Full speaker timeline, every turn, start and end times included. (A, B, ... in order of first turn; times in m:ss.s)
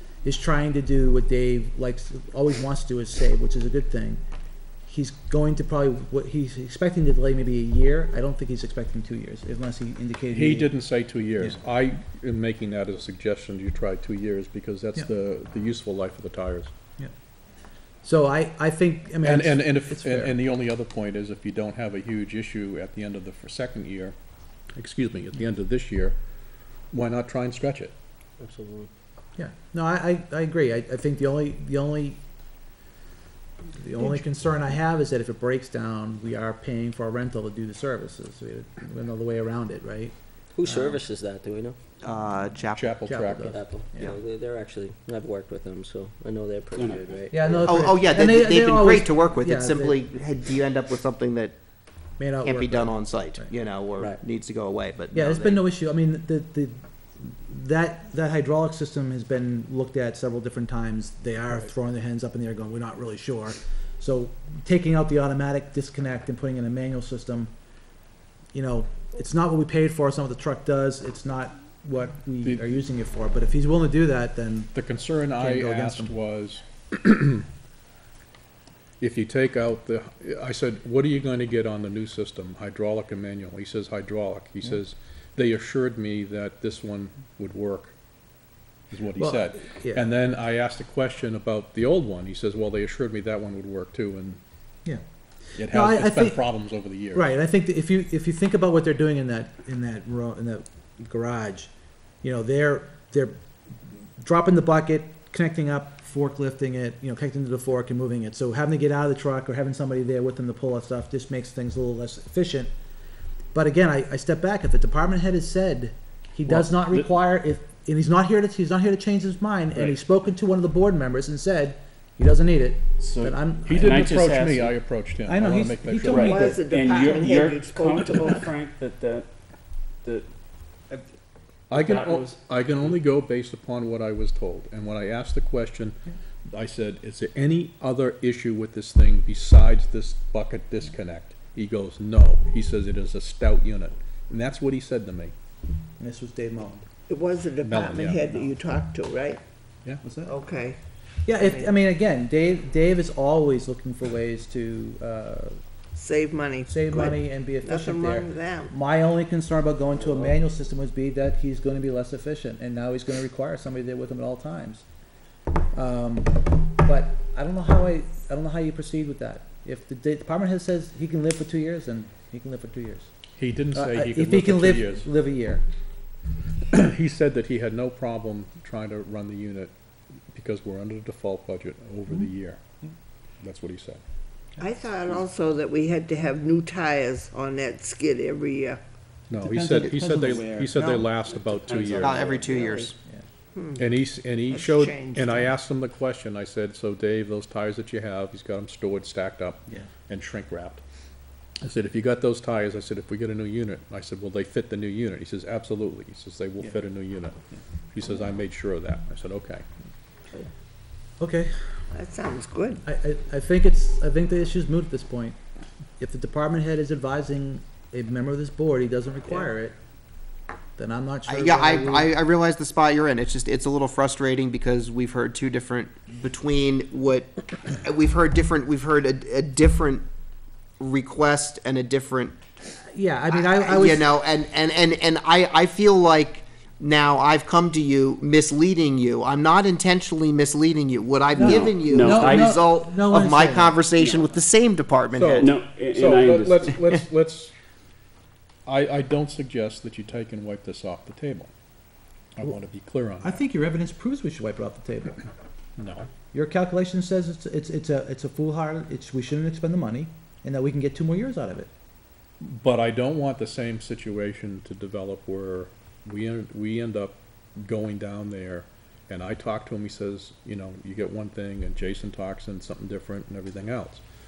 0:00.2-0:04.2 A
0:04.8-0:10.7 A
0:10.3-0:16.7 B
0:18.0-0:20.3 A
0:19.2-0:24.1 B
0:24.7-0:26.1 B
0:26.9-0:27.9 B
0:28.4-0:28.9 C
0:29.4-0:32.2 A
0:33.7-0:41.0 A
0:40.5-0:41.8 C
0:42.0-0:42.9 D
0:42.8-0:43.6 B
0:43.1-0:44.2 A
0:43.4-0:47.8 C
0:46.7-0:47.0 E
0:47.3-0:50.0 A
0:47.6-0:51.5 D
0:52.2-0:53.5 A
0:52.4-0:55.6 D
0:55.1-1:07.5 A
1:08.5-1:14.7 A
1:14.7-1:17.5 B
1:15.4-1:16.1 A
1:19.0-1:27.9 B
1:28.9-1:34.4 B
1:29.2-1:30.1 A
1:35.6-1:36.4 A
1:35.6-1:37.4 B
1:37.1-1:41.7 A
1:42.2-1:43.4 A
1:44.2-1:52.7 A
1:53.5-2:04.2 A
1:56.5-1:57.0 B
2:03.0-2:04.8 E
2:03.6-2:06.3 B
2:05.2-2:06.7 A
2:06.0-2:08.4 F
2:06.1-2:09.3 E
2:11.7-2:16.0 B
2:11.7-2:12.4 E
2:16.5-2:25.3 B
2:26.0-2:26.8 A
2:27.1-2:29.4 F
2:27.6-2:28.4 B
2:30.0-2:30.4 A
2:30.3-2:30.8 F
2:31.2-2:35.6 A
2:31.4-2:31.7 F
2:35.9-2:38.7 F
2:36.6-2:44.8 A
2:45.7-2:53.1 A
2:53.4-2:55.1 B
2:53.7-2:55.6 A
2:56.7-2:59.7 B
3:00.3-3:02.6 B
3:03.4-3:04.0 B
3:04.6-3:08.8 F
3:09.3-3:12.2 B
3:09.3-3:10.9 A
3:10.7-3:11.6 F
3:11.6-3:12.6 E
3:12.0-3:13.0 D
3:12.2-3:12.8 F
3:13.8-3:20.8 B
3:14.5-3:15.5 F
3:21.6-3:27.4 B
3:27.9-3:29.6 B
3:31.2-3:31.5 A
3:31.9-3:32.8 F
3:32.8-3:35.4 A
3:36.0-3:39.8 A
3:40.8-3:42.1 A
3:41.3-3:50.0 D
3:50.8-3:52.4 D
3:52.9-3:54.1 A
3:53.3-4:05.5 D
4:01.3-4:02.6 E
4:01.4-4:03.8 A
4:05.1-4:07.5 B
4:05.3-4:06.8 E
4:08.6-4:11.5 B
4:12.4-4:13.4 B
4:13.2-4:15.2 A
4:15.8-4:16.1 B
4:16.3-4:21.7 A
4:22.4-4:34.0 B